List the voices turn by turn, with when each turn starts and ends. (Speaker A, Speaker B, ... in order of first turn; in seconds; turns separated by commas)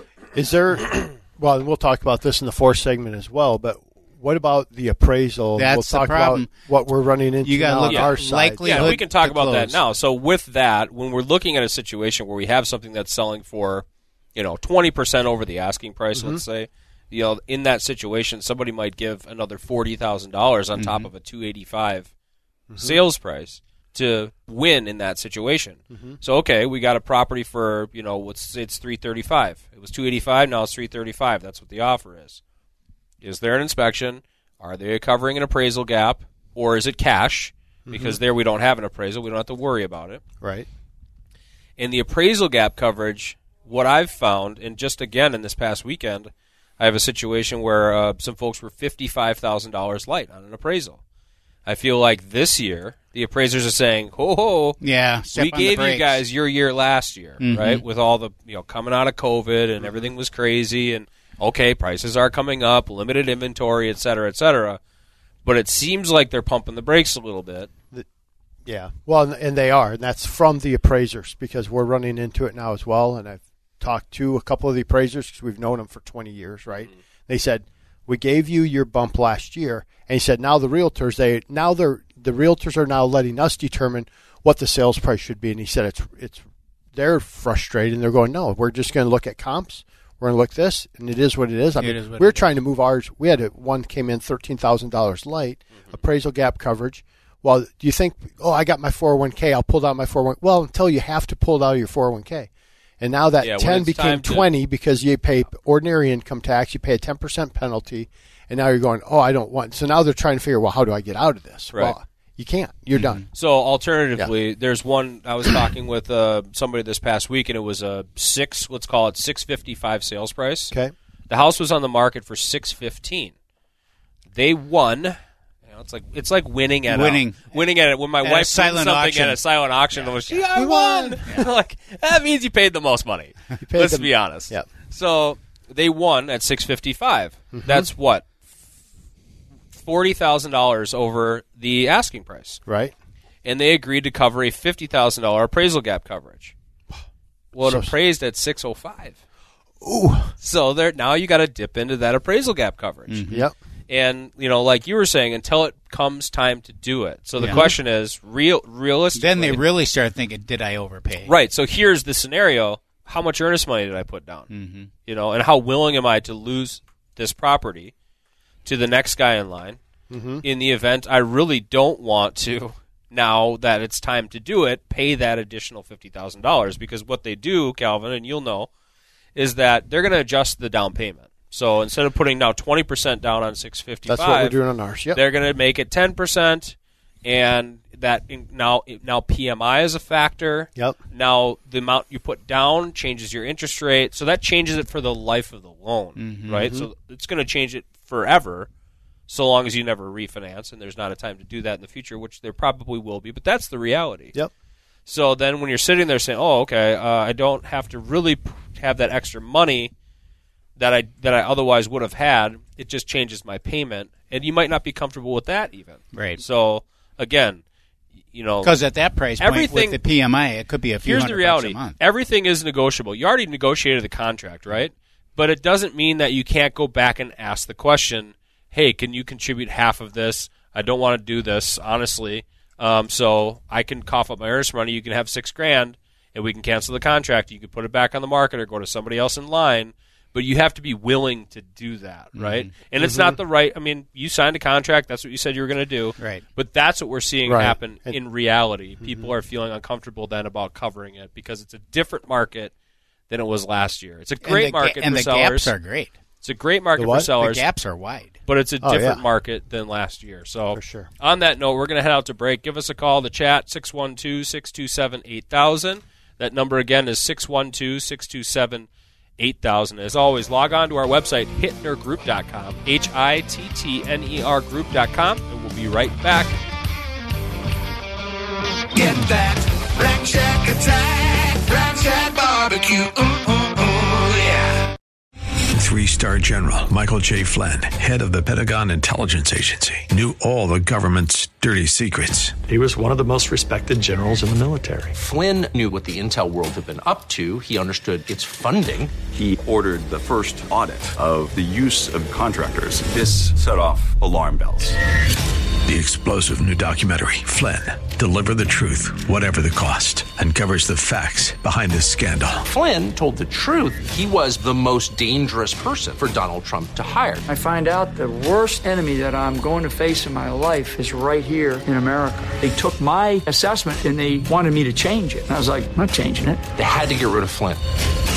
Speaker A: 0.3-9.0, Speaker B: 5.6-6.5, Speaker B: 7.4-9.8, Speaker C: 7.8-8.1, Speaker C: 8.6-22.1, Speaker A: 16.1-16.4, Speaker B: 20.8-21.1, Speaker A: 22.7-23.0, Speaker C: 22.8-32.4, Speaker A: 25.9-26.2, Speaker C: 33.2-40.2, Speaker A: 37.9-38.2, Speaker A: 40.4-40.7, Speaker C: 41.8-51.0, Speaker C: 51.7-54.8, Speaker B: 54.8-56.2, Speaker C: 55.3-64.8, Speaker B: 57.4-57.8, Speaker A: 59.8-60.1, Speaker C: 65.4-67.7, Speaker A: 68.7-86.4, Speaker A: 86.9-102.5, Speaker B: 91.8-92.6, Speaker A: 103.0-113.2, Speaker C: 103.4-104.5, Speaker B: 113.0-113.2, Speaker C: 113.3-120.8, Speaker C: 121.3-123.3, Speaker C: 124.3-125.2, Speaker C: 125.7-138.3, Speaker B: 126.9-127.6, Speaker B: 128.2-129.4, Speaker B: 130.1-130.4, Speaker A: 130.5-131.3, Speaker A: 133.6-134.7, Speaker A: 137.5-137.9, Speaker C: 139.7-142.6, Speaker A: 142.7-142.9, Speaker C: 143.4-146.5, Speaker C: 147.5-149.2, Speaker A: 147.6-147.9, Speaker A: 149.8-150.3, Speaker C: 150.4-153.3, Speaker B: 153.1-153.5, Speaker C: 153.9-159.6, Speaker B: 157.4-157.7, Speaker A: 157.4-157.8, Speaker B: 159.1-161.3, Speaker C: 161.2-164.5, Speaker B: 164.5-164.9, Speaker C: 165.1-167.9, Speaker C: 168.7-169.8, Speaker A: 170.1-170.4, Speaker C: 170.4-178.7, Speaker C: 179.3-184.6, Speaker A: 184.1-185.2, Speaker C: 185.1-198.7, Speaker B: 196.2-196.6, Speaker A: 196.5-196.9, Speaker C: 199.3-204.4, Speaker C: 205.1-209.9, Speaker C: 210.8-217.6, Speaker B: 216.1-216.4, Speaker C: 218.3-218.7, Speaker B: 218.6-222.0, Speaker C: 219.4-220.0, Speaker C: 221.0-252.7, Speaker B: 242.3-242.7, Speaker A: 243.0-243.4, Speaker B: 246.2-246.4, Speaker A: 247.4-248.2, Speaker A: 249.0-249.3, Speaker C: 253.3-255.7, Speaker B: 254.4-256.1, Speaker C: 256.4-257.7, Speaker A: 257.0-257.3, Speaker B: 257.4-258.4, Speaker C: 258.5-268.9, Speaker A: 258.8-259.2, Speaker A: 260.7-261.1, Speaker C: 269.4-276.6, Speaker D: 278.9-284.8, Speaker E: 285.8-292.6, Speaker F: 292.7-295.1, Speaker G: 295.1-299.2, Speaker H: 299.3-305.0, Speaker E: 305.9-312.6, Speaker G: 312.7-317.4, Speaker I: 317.4-326.7, Speaker G: 326.7-327.8